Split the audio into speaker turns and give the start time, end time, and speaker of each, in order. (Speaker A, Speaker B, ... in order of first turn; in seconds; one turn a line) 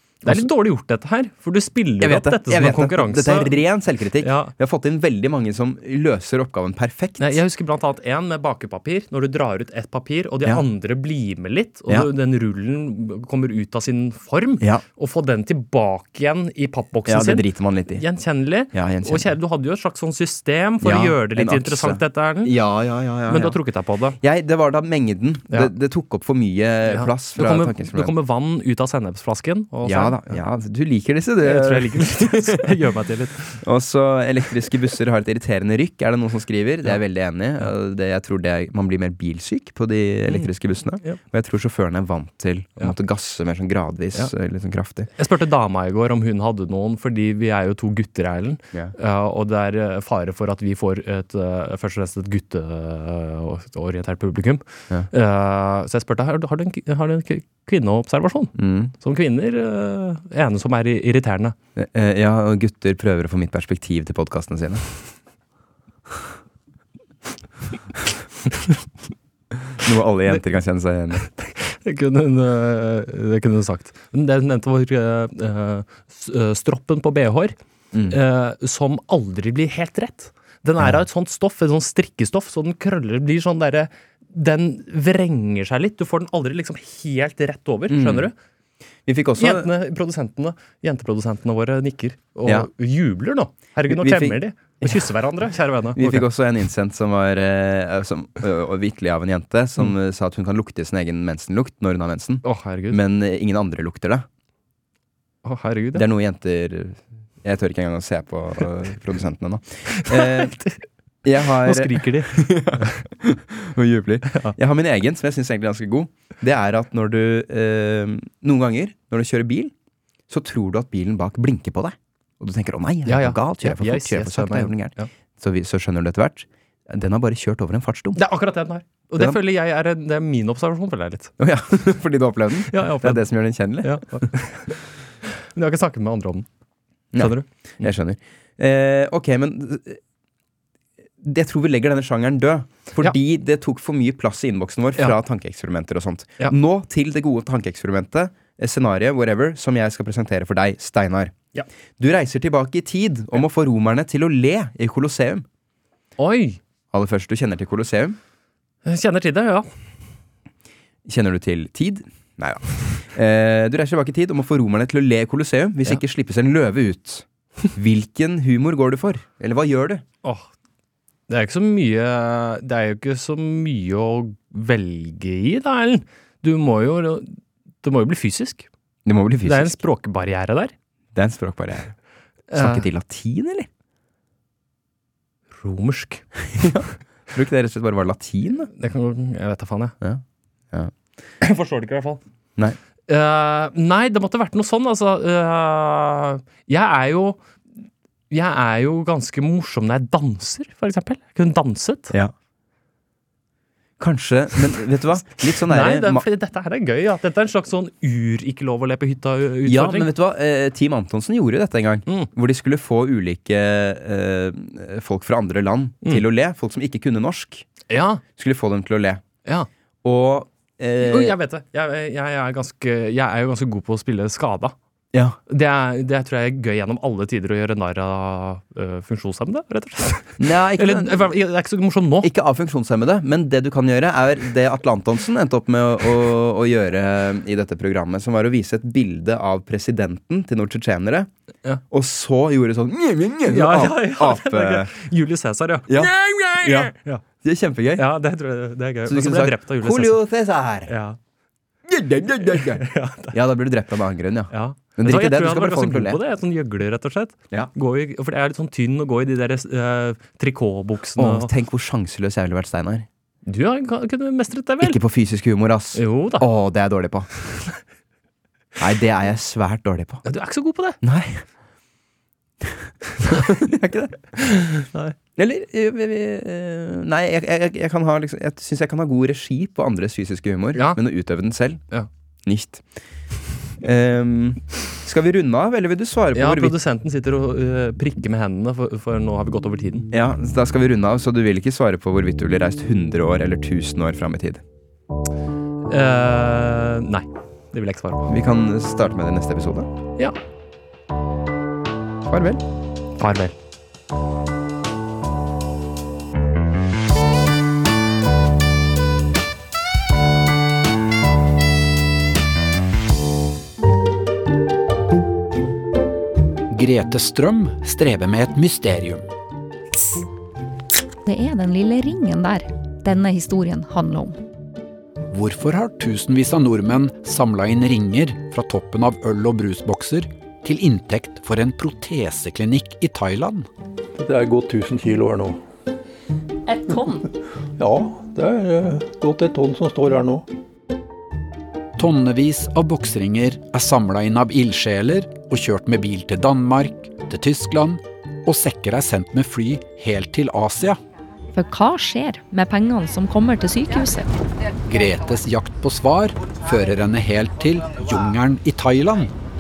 Speaker A: 0.2-3.6
Speaker B: 2.0-7.4
Speaker A: 4.2-4.5
Speaker A: 7.2-22.5
Speaker B: 17.1-18.0
Speaker B: 18.7-19.3
Speaker B: 20.8-23.6
Speaker A: 23.3-24.2
Speaker B: 24.2-28.1
Speaker A: 26.9-30.4
Speaker B: 29.8-32.8
Speaker A: 31.4-33.6
Speaker B: 33.6-45.1
Speaker A: 45.1-61.5
Speaker B: 58.5-58.9
Speaker B: 61.7-65.0
Speaker B: 69.7-71.3
Speaker A: 71.2-77.5
Speaker B: 77.9-78.2
Speaker A: 78.1-88.3
Speaker B: 87.9-88.3
Speaker B: 89.0-89.7
Speaker A: 89.4-96.2
Speaker B: 92.4-92.7
Speaker B: 93.9-95.1
Speaker B: 95.9-104.2
Speaker A: 102.4-103.0
Speaker A: 105.4-106.0
Speaker B: 105.9-110.5
Speaker A: 109.9-110.8
Speaker B: 111.2-119.7
Speaker A: 111.6-113.0
Speaker A: 114.3-114.5
Speaker B: 120.3-128.2
Speaker A: 123.0-125.1
Speaker A: 128.2-131.3
Speaker B: 131.4-134.3
Speaker A: 132.7-133.2
Speaker A: 133.8-134.7
Speaker A: 135.5-136.5
Speaker B: 137.1-140.0
Speaker A: 137.2-137.9
Speaker B: 141.2-151.3
Speaker B: 152.0-155.4
Speaker A: 156.2-156.6
Speaker B: 156.9-158.2
Speaker A: 158.8-159.8
Speaker B: 161.0-170.0
Speaker A: 171.3-178.7
Speaker B: 179.1-179.8
Speaker A: 179.4-180.7
Speaker B: 181.1-181.9
Speaker A: 182.5-182.8
Speaker B: 182.5-183.7
Speaker A: 185.6-186.8
Speaker B: 186.6-188.7
Speaker A: 188.8-189.9
Speaker B: 190.0-190.9
Speaker A: 191.4-192.2
Speaker A: 193.1-197.4
Speaker A: 198.3-202.1
Speaker B: 204.0-206.2
Speaker A: 205.6-210.1
Speaker B: 209.6-217.7
Speaker A: 217.9-218.2
Speaker B: 218.3-219.2
Speaker B: 220.0-221.4
Speaker A: 221.0-224.7
Speaker A: 225.5-232.3
Speaker B: 230.4-231.3
Speaker B: 232.2-241.3
Speaker B: 241.9-244.9
Speaker A: 243.5-247.2
Speaker B: 245.9-248.1
Speaker A: 248.0-250.2
Speaker B: 249.1-250.9
Speaker A: 250.9-251.2
Speaker B: 251.8-256.2
Speaker A: 252.8-253.3
Speaker A: 254.5-261.5
Speaker B: 261.2-263.1
Speaker A: 263.4-265.0
Speaker B: 264.8-267.3
Speaker A: 265.9-266.4
Speaker B: 268.8-270.2
Speaker A: 270.2-271.0
Speaker B: 271.0-271.4
Speaker B: 272.6-274.2
Speaker A: 273.2-273.5
Speaker A: 274.4-275.1
Speaker B: 275.4-281.8
Speaker A: 280.7-281.0
Speaker B: 282.4-282.9
Speaker B: 283.8-286.7
Speaker A: 286.3-290.1
Speaker B: 290.1-294.6
Speaker A: 295.9-298.3
Speaker B: 298.2-299.9
Speaker B: 302.2-302.6
Speaker A: 303.2-303.5
Speaker C: 316.7-319.2
Speaker D: 321.2-324.4
Speaker C: 325.3-333.7
Speaker E: 334.1-335.6
Speaker E: 336.9-337.2
Speaker E: 337.8-340.4
Speaker C: 342.0-351.0
Speaker D: 351.5-354.3
Speaker C: 354.8-359.3